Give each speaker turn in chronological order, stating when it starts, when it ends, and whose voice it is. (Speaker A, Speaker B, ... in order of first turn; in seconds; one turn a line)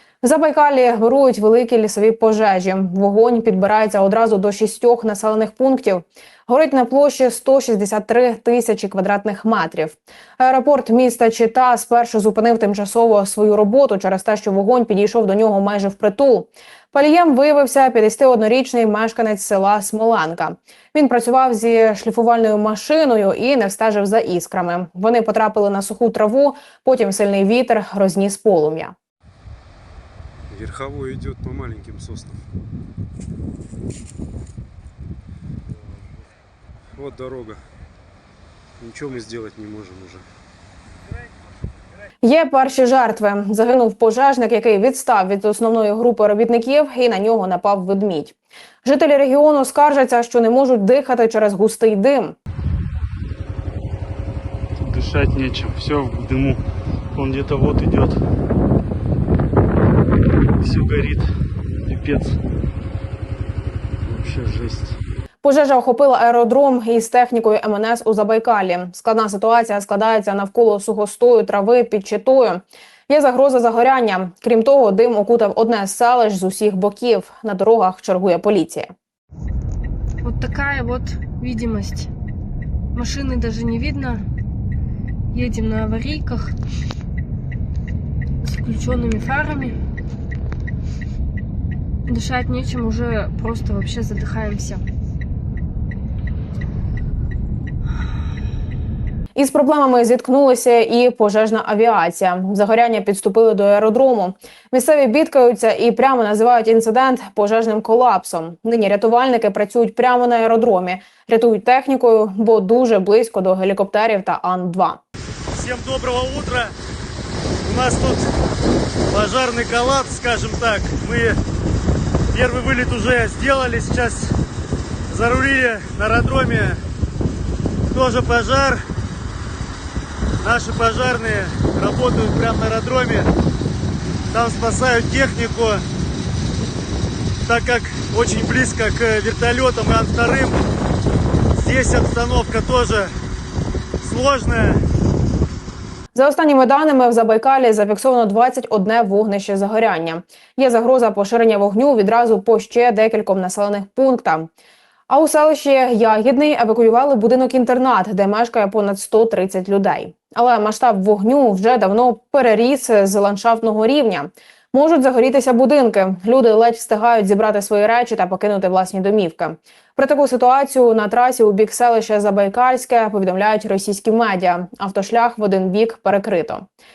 Speaker A: 0.2-28.9
Speaker B: 30.5-32.4
Speaker B: 36.9-37.6
Speaker B: 38.8-40.2
Speaker A: 42.2-52.4
Speaker C: 54.8-56.6
Speaker C: 57.1-58.2
Speaker C: 60.6-61.3
Speaker C: 61.8-62.4
Speaker C: 64.0-65.0
Speaker A: 65.4-78.9
Speaker D: 80.2-82.1
Speaker D: 82.9-84.2
Speaker D: 85.3-86.5
Speaker D: 88.4-89.8
Speaker D: 92.1-94.8
Speaker A: 99.3-115.0
Speaker E: 115.5-116.7
Speaker E: 117.6-118.2
Speaker E: 119.1-121.4
Speaker E: 122.3-124.3
Speaker E: 125.1-126.8
Speaker E: 127.9-128.8
Speaker E: 130.4-133.3
Speaker E: 134.3-135.8
Speaker E: 137.4-140.6
Speaker E: 141.5-143.1
Speaker E: 144.0-144.8
Speaker A: 146.1-154.5
Speaker A: 155.1-176.7